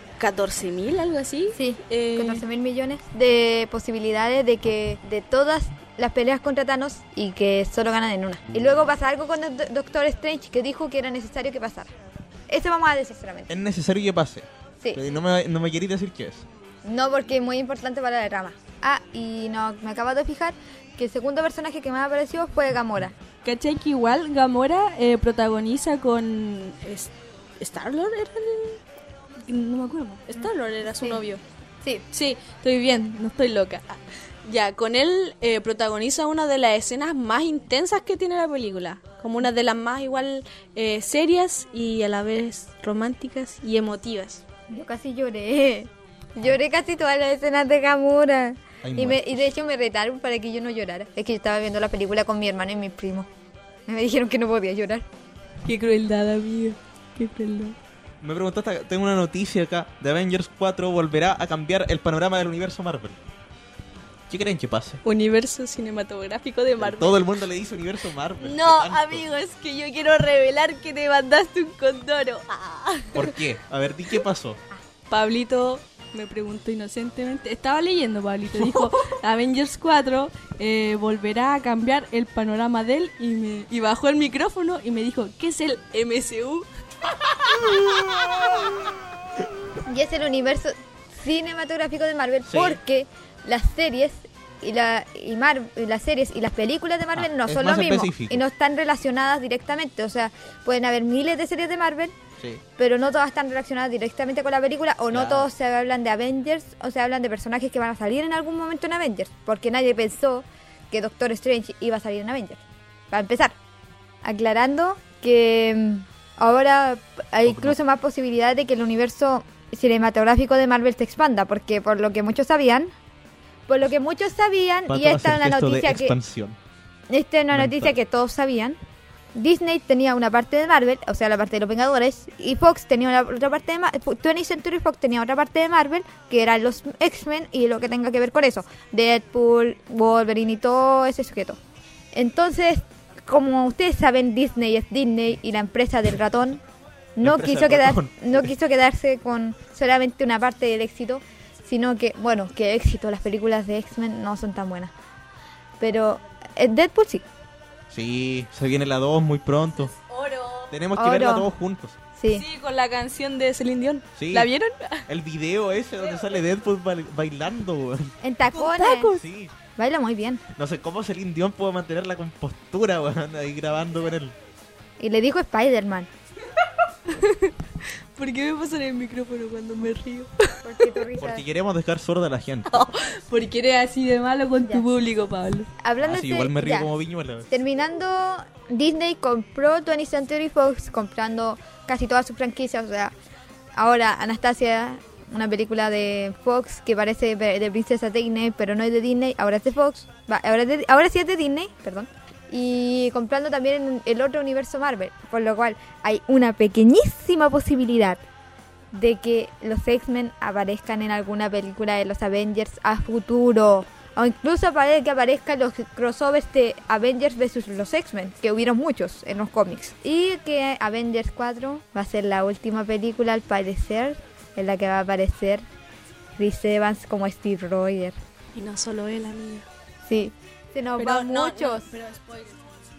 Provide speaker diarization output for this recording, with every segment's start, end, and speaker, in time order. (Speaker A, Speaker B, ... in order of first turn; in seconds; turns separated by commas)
Speaker A: 0.2-2.4, Speaker B: 1.6-11.9, Speaker B: 12.5-13.5, Speaker C: 13.5-16.5, Speaker B: 16.9-23.2, Speaker A: 23.4-28.8, Speaker A: 29.5-31.4, Speaker B: 30.4-31.2, Speaker A: 32.1-44.5, Speaker B: 44.7-53.3, Speaker C: 48.8-49.5, Speaker B: 53.9-55.1, Speaker A: 55.6-57.8, Speaker C: 58.2-63.2, Speaker C: 64.3-65.0, Speaker A: 65.0-67.2, Speaker C: 66.8-69.3, Speaker A: 68.4-73.3, Speaker C: 73.1-74.6, Speaker A: 75.1-86.7, Speaker C: 87.5-88.2, Speaker B: 89.8-102.2, Speaker C: 92.5-92.8, Speaker C: 97.1-98.5, Speaker B: 102.8-113.6, Speaker C: 105.1-105.5, Speaker B: 114.2-122.9, Speaker C: 117.5-117.8, Speaker B: 123.7-126.2, Speaker C: 124.9-126.6, Speaker B: 127.1-128.8, Speaker C: 127.5-127.9, Speaker B: 129.3-141.6, Speaker B: 142.1-146.6, Speaker B: 147.2-154.9, Speaker C: 147.2-148.5, Speaker B: 155.8-157.3, Speaker C: 157.9-159.9, Speaker A: 159.9-160.8, Speaker C: 160.7-162.0, Speaker B: 161.0-161.5, Speaker B: 162.2-162.5, Speaker A: 162.3-165.0, Speaker C: 164.2-164.5, Speaker C: 165.1-168.1, Speaker B: 168.2-169.2, Speaker A: 168.5-169.2, Speaker C: 169.2-169.5, Speaker B: 169.8-170.4, Speaker C: 170.6-174.4, Speaker B: 175.0-176.1, Speaker A: 177.1-177.5, Speaker A: 178.2-181.0, Speaker B: 180.6-181.4, Speaker C: 181.2-182.7, Speaker A: 182.7-185.7, Speaker B: 184.6-184.9, Speaker B: 185.8-186.9, Speaker C: 186.0-187.5, Speaker B: 187.5-193.1, Speaker B: 193.8-208.2, Speaker B: 208.9-225.7, Speaker B: 226.4-228.2, Speaker A: 228.6-229.7, Speaker B: 230.1-231.9, Speaker A: 231.0-232.6